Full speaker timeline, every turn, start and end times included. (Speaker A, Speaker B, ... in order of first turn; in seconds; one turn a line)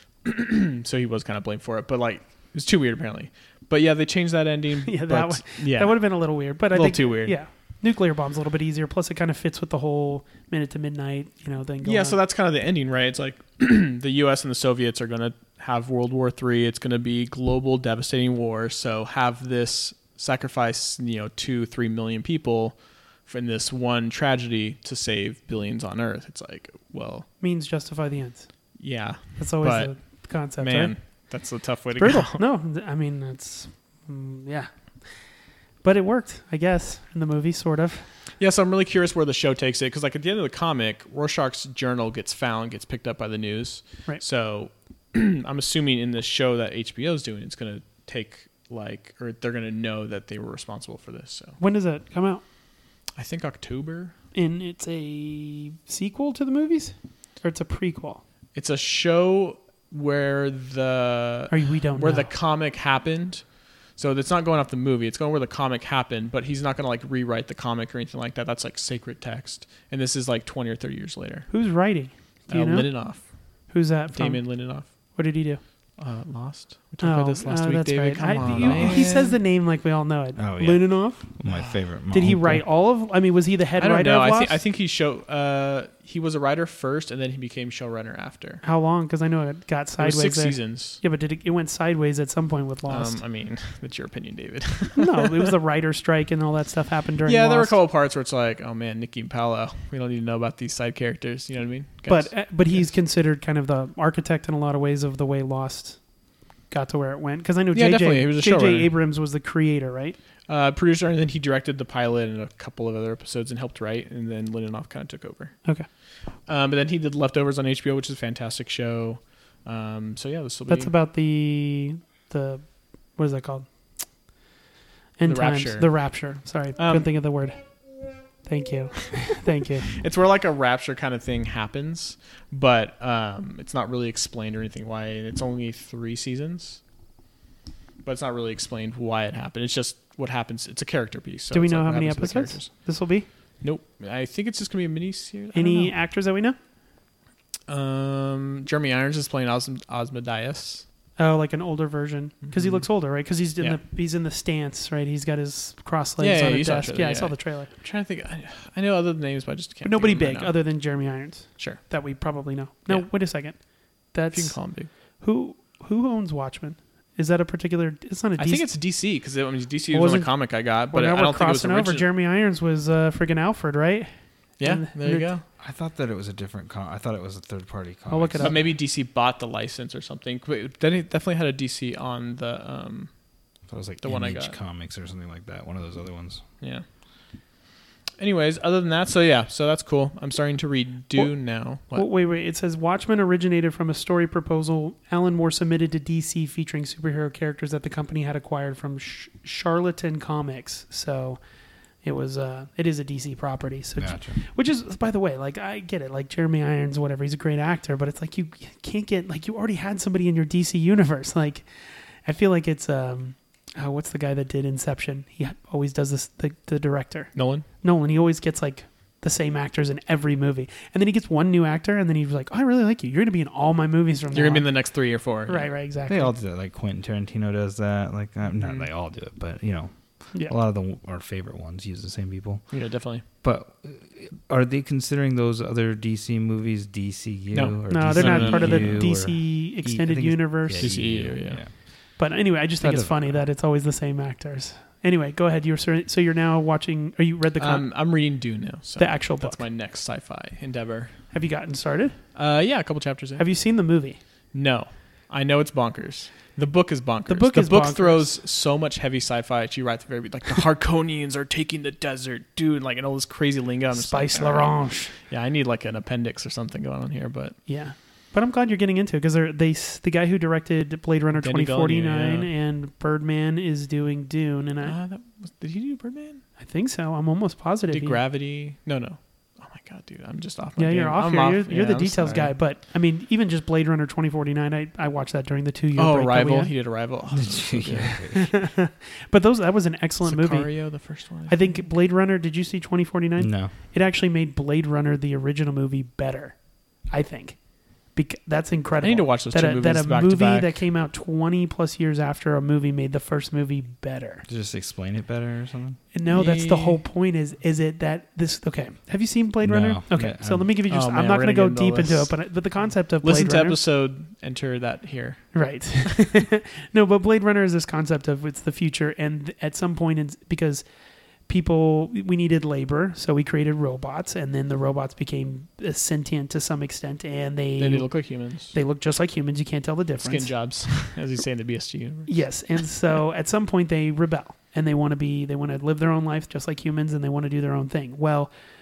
Speaker A: 0.2-7.4
Speaker B: 4.9-12.2
Speaker A: 11.8-27.3
Speaker B: 27.4-28.5
Speaker A: 28.8-30.0
Speaker B: 29.4-31.3
Speaker A: 30.6-32.4
Speaker B: 32.0-34.7
Speaker B: 35.8-38.1
Speaker A: 38.4-51.6
Speaker B: 51.6-52.4
Speaker A: 53.2-54.1
Speaker B: 54.3-58.2
Speaker A: 58.5-71.5
Speaker B: 61.5-62.3
Speaker B: 71.5-73.0
Speaker A: 72.5-73.3
Speaker B: 73.7-75.6
Speaker A: 74.1-74.9
Speaker A: 76.0-79.4
Speaker B: 77.0-81.3
Speaker C: 78.4-79.1
Speaker C: 80.4-82.7
Speaker A: 81.5-81.8
Speaker B: 82.1-84.6
Speaker A: 83.8-88.6
Speaker B: 88.6-93.2
Speaker A: 90.0-91.0
Speaker A: 92.9-95.5
Speaker B: 95.0-97.8
Speaker A: 97.3-102.9
Speaker B: 102.1-106.0
Speaker B: 106.7-110.2
Speaker A: 107.7-108.9
Speaker A: 110.5-115.7
Speaker A: 116.5-120.9
Speaker B: 120.7-123.7
Speaker B: 125.2-127.6
Speaker A: 125.3-126.2
Speaker A: 126.8-127.1
Speaker B: 128.4-129.9
Speaker A: 129.9-136.8
Speaker A: 138.0-142.9
Speaker B: 141.5-143.3
Speaker A: 143.6-145.9
Speaker B: 145.5-146.6
Speaker A: 147.7-150.8
Speaker B: 151.2-157.7
Speaker A: 152.4-152.9
Speaker A: 156.2-160.6
Speaker B: 159.8-163.6
Speaker B: 164.1-168.7
Speaker A: 164.3-164.9
Speaker A: 168.4-172.1
Speaker B: 169.9-175.3
Speaker A: 174.6-175.4
Speaker C: 175.6-178.6
Speaker B: 178.1-178.6
Speaker A: 178.4-183.1
Speaker C: 183.7-186.4
Speaker A: 184.0-184.6
Speaker A: 188.2-192.1
Speaker B: 191.1-201.4
Speaker B: 202.0-224.9
Speaker C: 204.0-204.4
Speaker A: 217.3-217.7
Speaker A: 224.3-225.7
Speaker B: 225.5-226.3
Speaker C: 226.1-241.8
Speaker A: 228.6-228.9
Speaker A: 232.7-233.2
Speaker A: 237.5-239.1
Speaker B: 237.9-241.0
Speaker A: 240.8-241.7
Speaker B: 242.2-247.9
Speaker C: 242.8-243.4
Speaker A: 247.6-251.2
Speaker B: 249.0-249.6
Speaker B: 251.3-252.2
Speaker A: 252.3-253.5
Speaker B: 253.4-254.2
Speaker A: 254.5-267.6
Speaker B: 257.3-258.3
Speaker B: 263.9-265.1
Speaker B: 267.7-275.0
Speaker A: 271.4-272.5
Speaker A: 274.8-276.4
Speaker B: 276.6-278.2
Speaker A: 277.9-282.5
Speaker B: 280.8-286.7
Speaker A: 286.0-288.2
Speaker C: 287.3-288.6
Speaker B: 288.3-297.6
Speaker A: 290.2-291.8
Speaker C: 293.4-293.7
Speaker B: 298.1-304.4
Speaker A: 299.0-300.8
Speaker C: 304.5-306.0
Speaker B: 306.1-313.8
Speaker A: 306.3-307.0
Speaker C: 309.6-310.7
Speaker A: 310.9-312.4
Speaker A: 313.2-315.6
Speaker B: 315.5-320.9
Speaker B: 321.5-330.5
Speaker A: 327.8-328.8
Speaker A: 330.2-332.4
Speaker B: 332.3-338.5